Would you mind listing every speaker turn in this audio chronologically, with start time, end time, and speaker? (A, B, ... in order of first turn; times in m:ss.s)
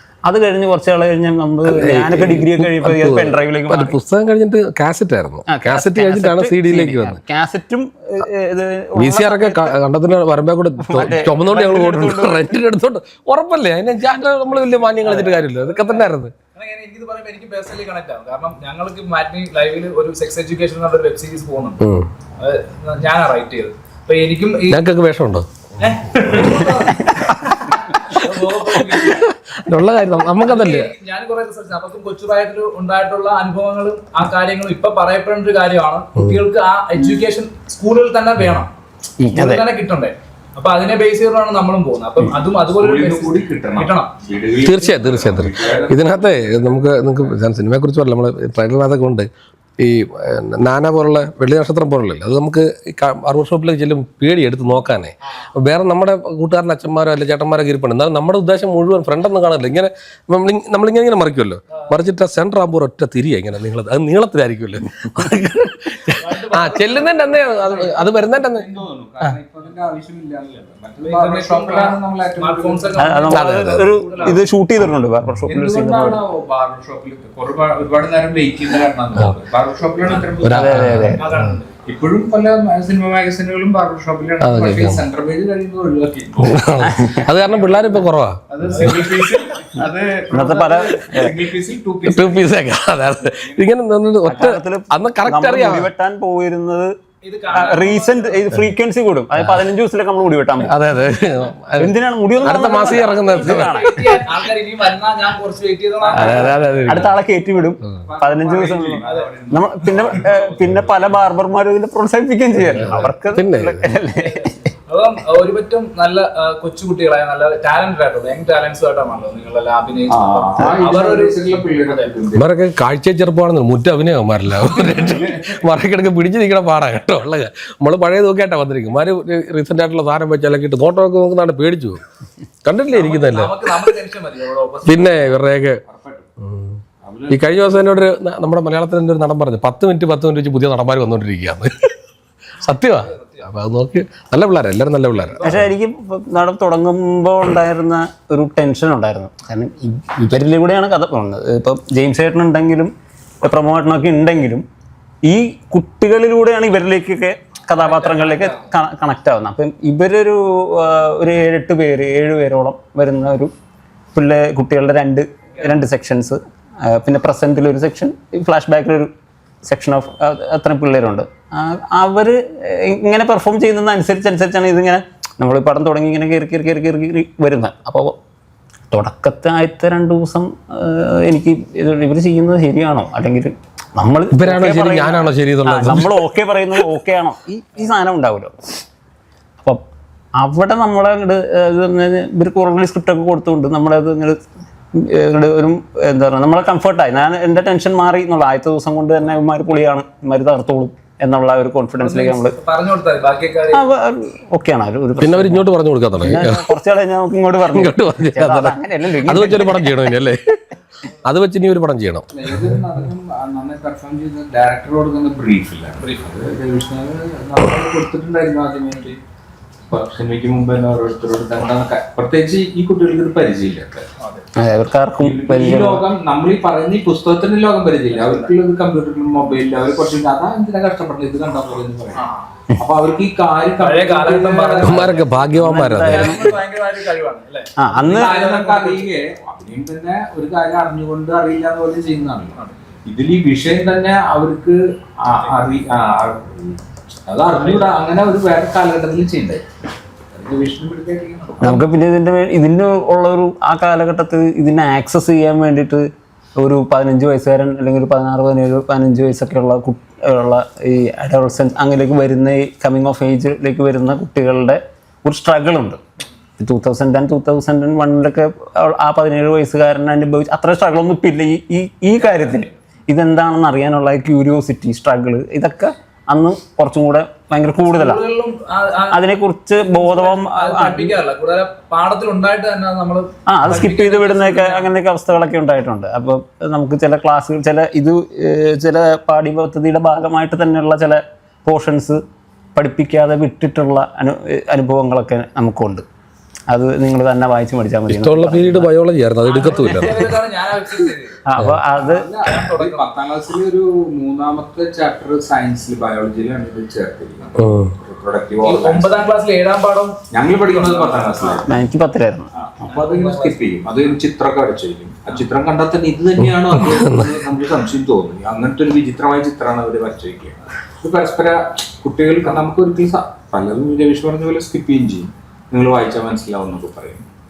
0:00.2-0:04.0 A
0:01.7-0:07.2 B
0:05.5-0:09.8 A
0:09.0-0:16.3 B
0:10.8-0:12.6 A
0:15.0-0:15.4 A
0:15.0-0:24.8 C
0:21.8-0:22.1 B
0:24.7-0:25.5 B
0:25.8-0:29.3 C
0:26.3-0:26.6 B
0:28.9-0:30.9 B
0:30.4-0:38.7 C
0:39.2-0:39.7 A
0:39.3-0:44.1 C
0:42.8-0:47.3 D
0:44.6-0:49.3 B
0:49.8-1:08.7 B
1:06.2-1:08.4 C
1:08.5-1:13.2 D
1:11.0-1:14.4 C
1:13.0-1:16.2 A
1:13.3-1:13.9 B
1:15.5-1:21.1 D
1:20.4-1:21.4 B
1:20.4-1:21.3 A
1:21.2-1:21.7 C
1:21.8-1:26.6 D
1:24.4-1:25.0 B
1:26.4-1:28.9 B
1:26.8-1:27.3 A
1:27.6-1:28.0 D
1:28.5-1:32.7 D
1:28.6-1:29.2 C
1:30.3-1:31.3 A
1:32.1-1:35.9 B
1:33.3-1:33.7 D
1:34.3-1:36.9 A
1:37.2-1:38.5 C
1:37.5-1:40.7 A
1:40.7-1:41.9 B
1:41.8-1:44.4 A
1:42.4-1:44.1 B
1:43.1-1:46.6 C
1:46.1-1:54.7 A
1:46.1-1:47.1 B
1:46.2-1:47.0 D
1:48.0-1:51.0 D
1:49.0-1:49.3 C
1:52.8-1:54.0 B
1:54.2-2:02.2 C
2:00.1-2:02.5 D
2:02.4-2:12.0 B
2:12.6-2:13.6 B
2:12.9-2:15.3 C
2:14.9-2:15.8 B
2:15.9-2:16.3 D
2:16.4-2:16.8 B
2:17.0-2:17.8 D
2:17.3-2:21.7 B
2:22.6-2:25.7 B
2:23.0-2:23.5 C
2:25.2-2:25.6 C
2:25.4-2:34.6 A
2:35.2-2:43.5 A
2:37.7-2:38.6 C
2:44.1-2:49.1 A
2:45.6-2:45.8 C
2:49.6-2:58.2 A
2:58.9-3:08.6 A
3:04.3-3:06.2 B
3:10.4-3:14.4 A
3:15.0-3:22.6 A
3:22.0-3:23.9 C
3:23.7-3:30.0 A
3:25.2-3:26.7 B
3:27.7-3:30.4 B
3:31.1-3:32.3 B
3:32.3-3:39.2 D
3:36.0-3:36.2 C
3:39.9-3:44.1 D
3:44.2-3:44.5 C
3:44.6-3:46.0 A
3:45.2-3:52.2 D
3:48.1-3:48.5 C
3:52.2-3:52.5 C
3:52.8-3:55.2 D
3:53.8-3:59.1 C
3:54.8-3:56.6 B
3:55.5-3:56.5 A
3:57.8-3:58.4 A
3:58.1-4:09.6 D
4:07.6-4:07.9 C
4:10.3-4:11.8 D
4:11.6-4:16.1 A
4:16.6-4:26.0 A
4:26.6-4:38.2 A
4:37.8-4:39.2 C
4:39.1-4:41.2 A
4:39.8-4:44.9 C
4:43.5-4:52.2 A
4:52.8-4:56.0 A
4:56.7-4:58.9 A
4:58.1-5:00.2 B
4:59.4-5:01.4 C
5:01.5-5:02.3 A
5:02.0-5:09.3 D
5:02.4-5:03.1 C
5:07.6-5:07.9 B
5:08.6-5:11.8 C
5:10.3-5:11.7 D
5:11.7-5:12.5 A
5:12.6-5:27.3 D
5:12.9-5:14.1 C
5:16.6-5:17.3 B